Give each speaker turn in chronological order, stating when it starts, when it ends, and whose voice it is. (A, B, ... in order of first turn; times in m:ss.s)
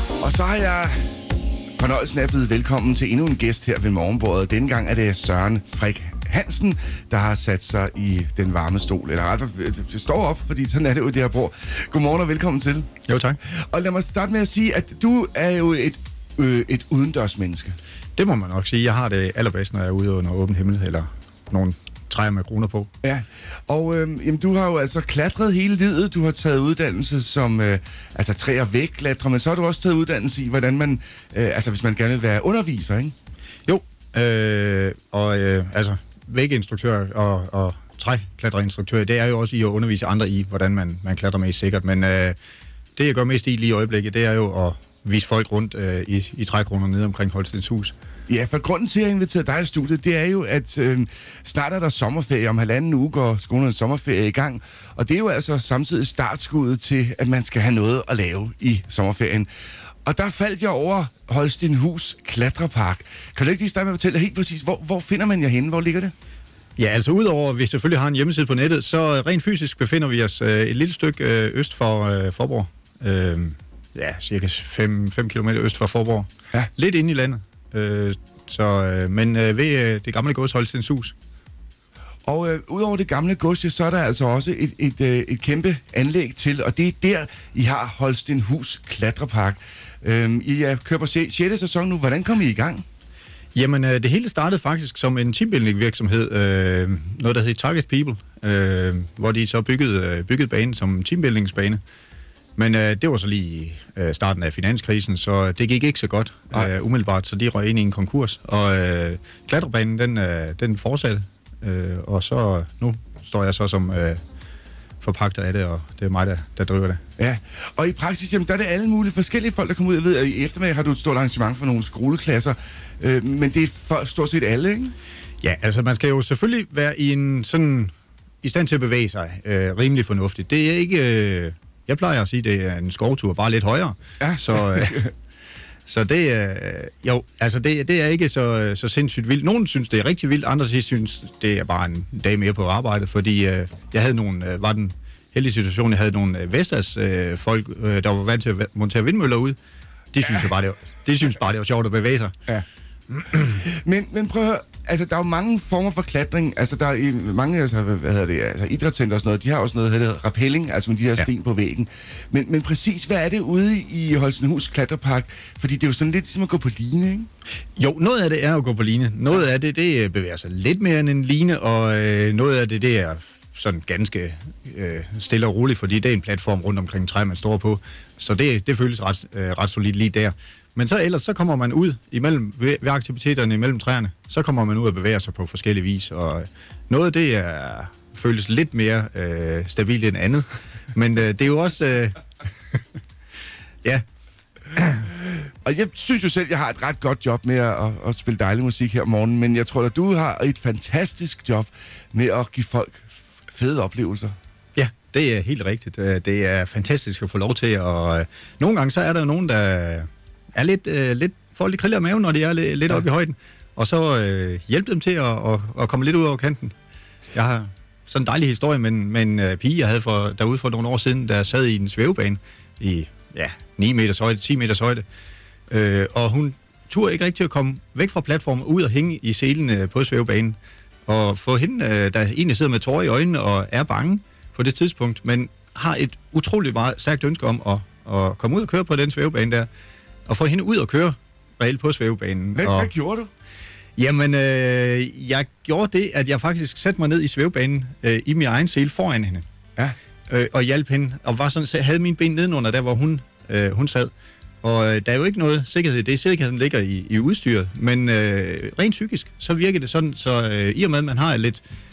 0:00.2-0:01.1 A
0:01.8-0:12.9 A
0:13.1-0:13.4 B
0:13.5-0:17.8 A
0:18.2-0:22.9 B
0:23.0-0:33.1 A
0:33.7-0:42.4 B
0:43.0-0:47.9 B
0:48.3-0:59.5 A
1:00.0-1:06.1 A
1:06.8-1:21.1 B
1:22.3-1:32.8 A
1:33.5-1:41.8 B
1:42.6-1:54.2 B
1:55.0-1:57.0 B
1:57.2-2:05.0 A
2:05.4-2:15.0 B
2:14.2-2:15.1 A
2:15.9-2:29.6 B
2:30.1-2:32.3 B
2:33.4-2:47.3 A
2:47.8-3:12.8 B
3:14.7-3:15.1 B
3:15.4-3:24.4 A
3:24.8-3:36.7 B
3:37.3-3:45.0 B
3:45.7-3:59.7 B
4:00.3-4:02.9 B
4:02.6-4:03.3 A
4:04.0-4:09.4 B
4:10.3-4:14.1 B
4:14.6-4:21.6 B